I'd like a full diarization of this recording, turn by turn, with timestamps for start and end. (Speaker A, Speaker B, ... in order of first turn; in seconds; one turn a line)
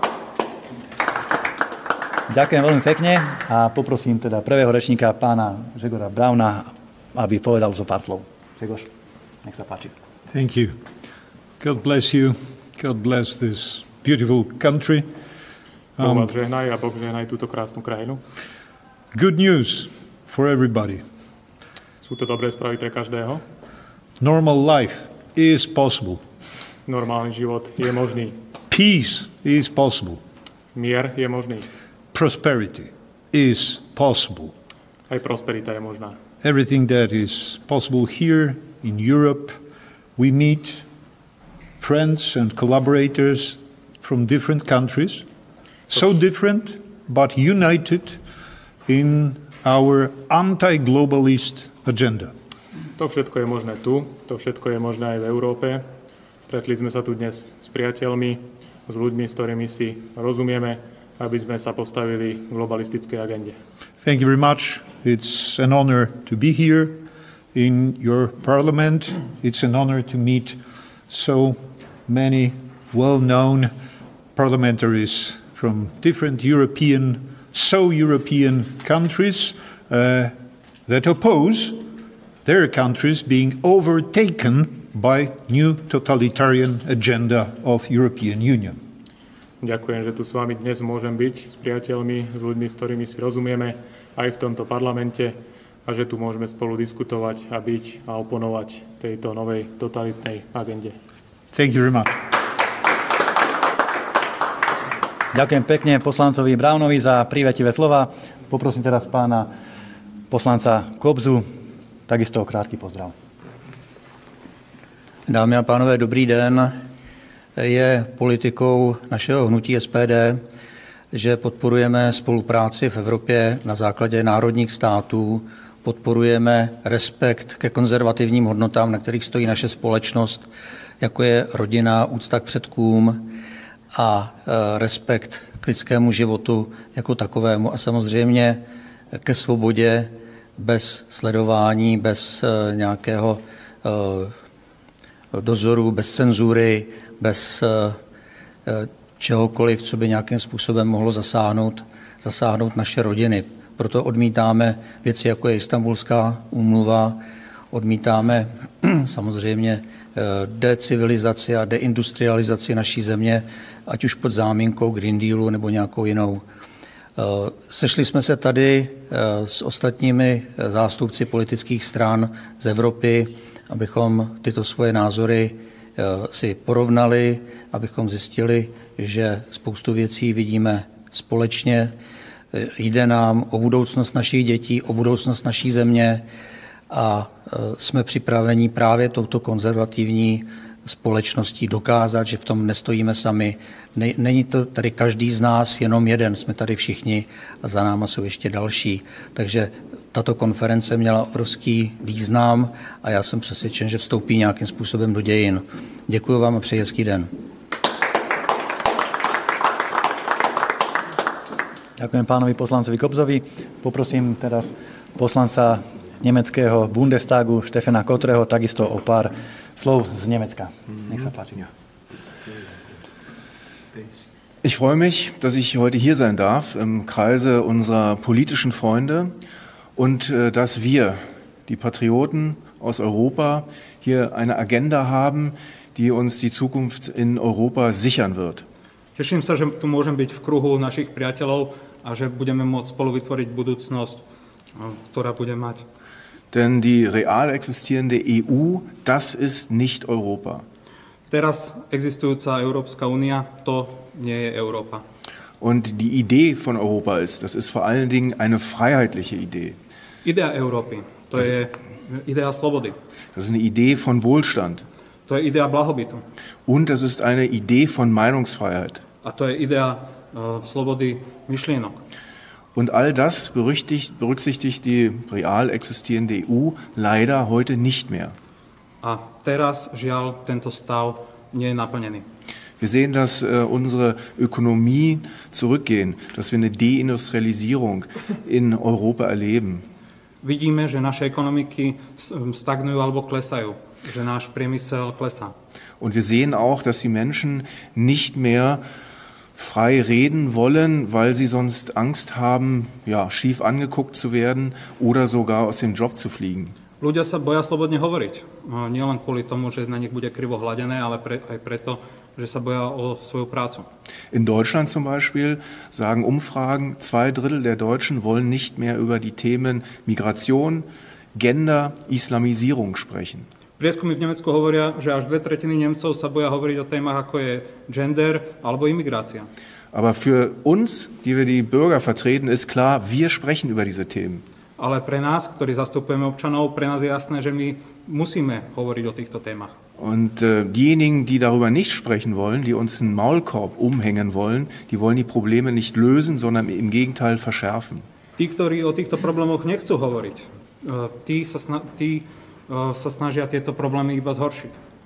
Speaker A: 2.3-8.9
Speaker A: 9.4-9.9
Speaker B: 10.3-10.8
Speaker B: 11.6-15.1
Speaker B: 16.0-16.3
Speaker C: 16.0-18.2
Speaker B: 19.1-21.0
Speaker C: 22.0-23.4
Speaker B: 24.2-26.2
Speaker C: 26.8-28.4
Speaker B: 28.7-30.2
Speaker C: 30.7-31.7
Speaker B: 32.1-34.5
Speaker C: 35.1-36.2
Speaker B: 36.4-39.6
Speaker B: 40.2-40.8
Speaker B: 41.8-45.2
Speaker B: 45.9-48.2
Speaker B: 48.9-52.3
Speaker C: 53.0-55.9
Speaker C: 56.4-63.6
Speaker B: 64.0-70.6
Speaker B: 71.1-73.7
Speaker B: 74.3-80.3
Speaker B: 80.9-81.8
Speaker B: 82.4-88.8
Speaker C: 89.6-101.0
Speaker B: 101.5-102.2
Speaker A: 105.3-109.5
Speaker A: 110.3-111.5
Speaker A: 112.1-113.1
Speaker D: 115.3-116.8
Speaker D: 117.5-120.4
Speaker D: 121.1-133.3
Speaker D: 133.9-144.3
Speaker D: 145.3-148.0
Speaker D: 148.7-166.4
Speaker D: 167.2-181.9
Speaker D: 182.5-186.2
Speaker D: 186.9-207.3
Speaker A: 212.0-221.6
Speaker E: 224.6-229.3
Speaker E: 229.9-238.7
Speaker F: 239.2-244.2
Speaker F: 244.8-245.8
Speaker E: 246.5-250.6
Speaker F: 251.3-255.0
Speaker E: 255.6-259.8
Speaker F: 260.2-263.0
Speaker E: 263.3-264.8
Speaker F: 265.3-266.2
Speaker E: 266.6-269.0
Speaker F: 269.2-272.0
Speaker E: 272.7-278.4
Speaker F: 279.0-282.2
Speaker E: 282.8-289.8
Speaker F: 290.4-295.5
Speaker E: 296.0-298.8
Speaker E: 299.6-306.8
Speaker F: 307.0-313.9
Speaker E: 314.3-323.5
Speaker F: 323.8-329.5
Speaker E: 329.9-334.4
Speaker F: 334.8-339.7
Speaker E: 340.0-348.1
Speaker F: 348.4-354.7